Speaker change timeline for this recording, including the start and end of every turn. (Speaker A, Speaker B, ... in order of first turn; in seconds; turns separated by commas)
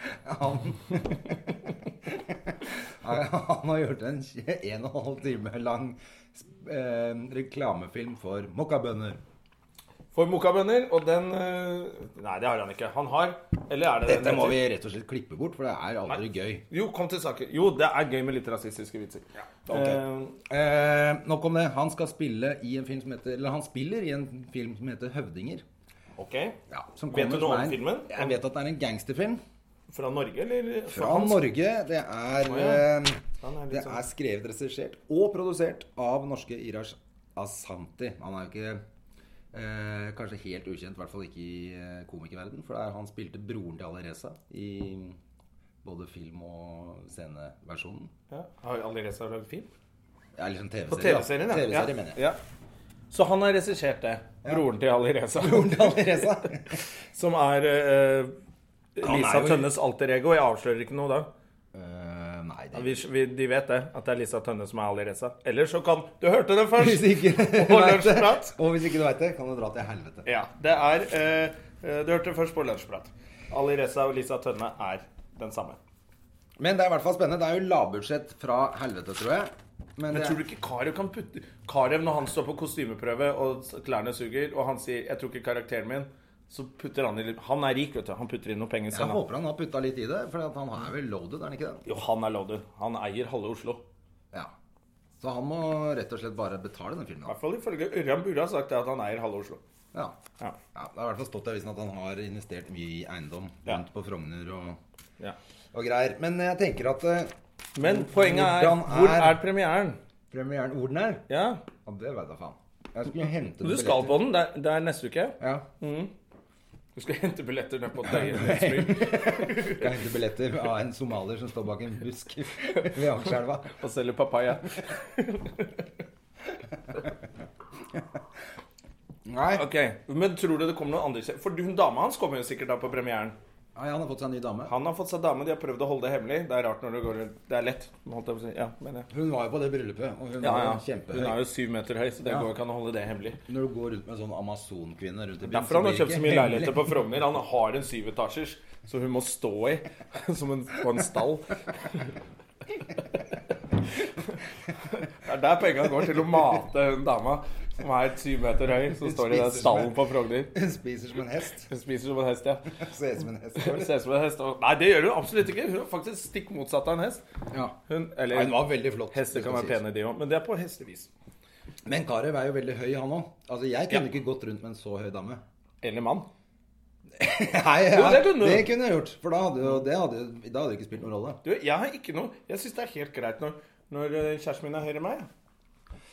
Speaker A: 0.1-9.2, Speaker B: 10.1-14.6, Speaker A: 14.0-16.6, Speaker B: 16.1-20.4, Speaker A: 19.7-25.6, Speaker B: 26.1-26.6, Speaker A: 26.7-29.4, Speaker B: 27.1-28.3, Speaker B: 29.9-31.5, Speaker A: 30.9-38.8, Speaker B: 32.5-32.9, Speaker B: 33.4-34.0, Speaker A: 39.5-45.2, Speaker A: 45.8-48.1, Speaker B: 48.3-49.7, Speaker A: 50.4-52.2, Speaker B: 50.9-52.4, Speaker B: 53.1-56.3, Speaker A: 55.3-56.8, Speaker B: 57.1-58.3, Speaker B: 59.0-61.3, Speaker A: 59.0-59.7, Speaker A: 61.7-63.0, Speaker B: 62.7-68.5, Speaker A: 66.8-70.2, Speaker B: 70.2-75.8, Speaker A: 76.6-80.4, Speaker B: 80.1-89.2, Speaker A: 88.9-91.8, Speaker B: 91.8-93.8, Speaker A: 95.2-97.3, Speaker B: 97.2-99.6, Speaker A: 100.7-104.8, Speaker A: 105.7-109.4, Speaker B: 107.8-110.0, Speaker A: 110.3-111.2, Speaker B: 111.3-111.6, Speaker A: 111.8-114.2, Speaker B: 113.6-116.1, Speaker A: 115.4-115.7, Speaker B: 117.0-119.9, Speaker A: 118.0-123.8, Speaker B: 123.7-125.9, Speaker A: 129.2-129.7, Speaker B: 129.5-133.3, Speaker A: 133.7-134.7, Speaker B: 134.7-139.1, Speaker A: 139.1-141.4, Speaker B: 140.4-143.4, Speaker A: 143.5-146.9, Speaker B: 145.4-152.1, Speaker B: 153.9-160.5, Speaker A: 158.9-159.9, Speaker A: 160.5-161.7, Speaker B: 161.7-162.7, Speaker A: 162.7-163.9, Speaker B: 163.5-167.2, Speaker A: 167.5-167.8, Speaker B: 167.9-168.6, Speaker A: 168.3-169.8, Speaker B: 169.1-171.1, Speaker A: 171.8-175.4, Speaker B: 175.8-176.3, Speaker A: 177.2-181.4, Speaker B: 177.9-178.7, Speaker B: 181.4-185.3